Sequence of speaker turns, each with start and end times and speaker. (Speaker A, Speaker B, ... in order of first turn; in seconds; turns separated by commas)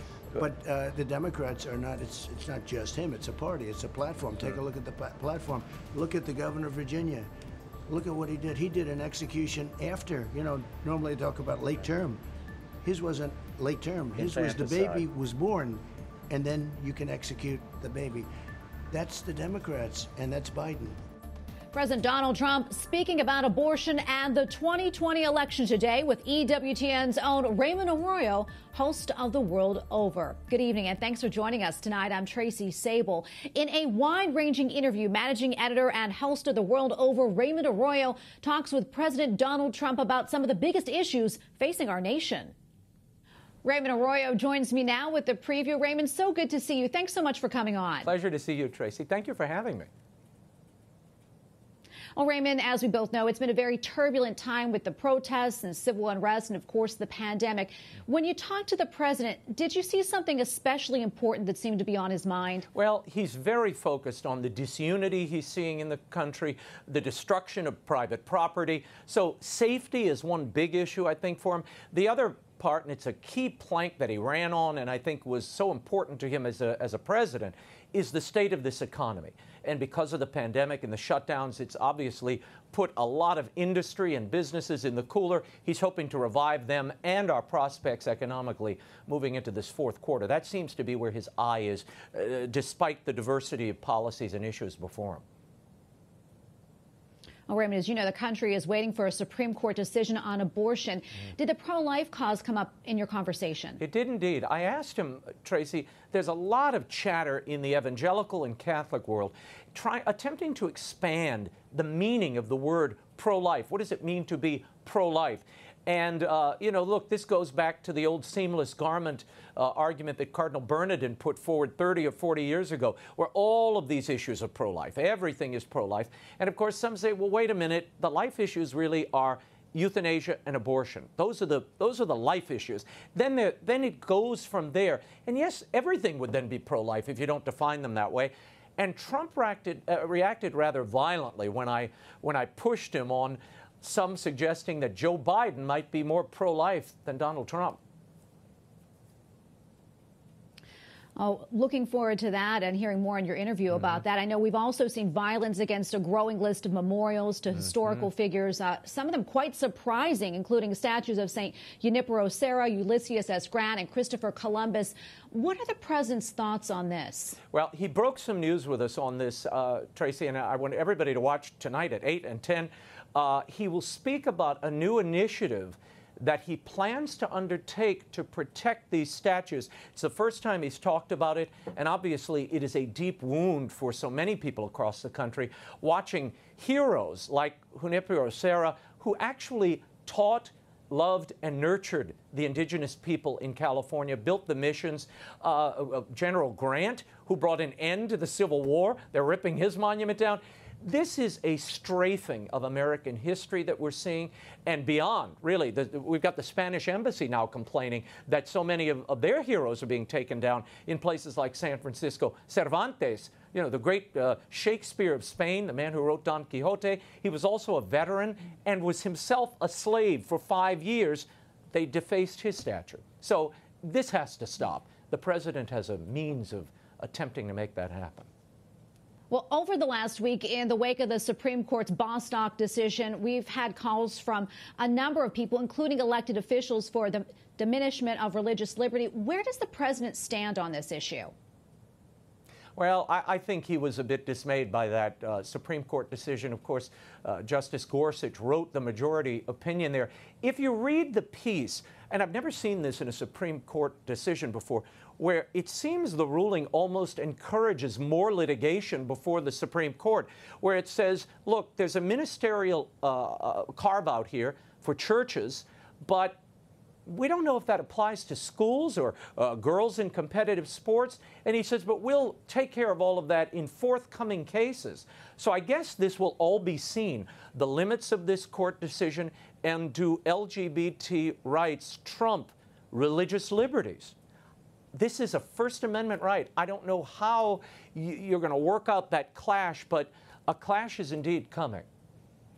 Speaker A: 0.3-7.3, Speaker A: 7.9-12.2, Speaker A: 12.8-18.3, Speaker B: 14.5-15.0, Speaker A: 18.9-20.9, Speaker C: 21.7-42.5, Speaker C: 43.6-48.1, Speaker B: 48.0-49.9, Speaker C: 52.1-62.7, Speaker B: 62.7-95.2, Speaker C: 97.5-103.8, Speaker B: 103.8-147.8, Speaker C: 151.2-167.4, Speaker B: 167.5-228.3, Speaker C: 229.3-241.3, Speaker B: 242.8-266.4, Speaker B: 267.1-284.1, Speaker B: 284.9-291.9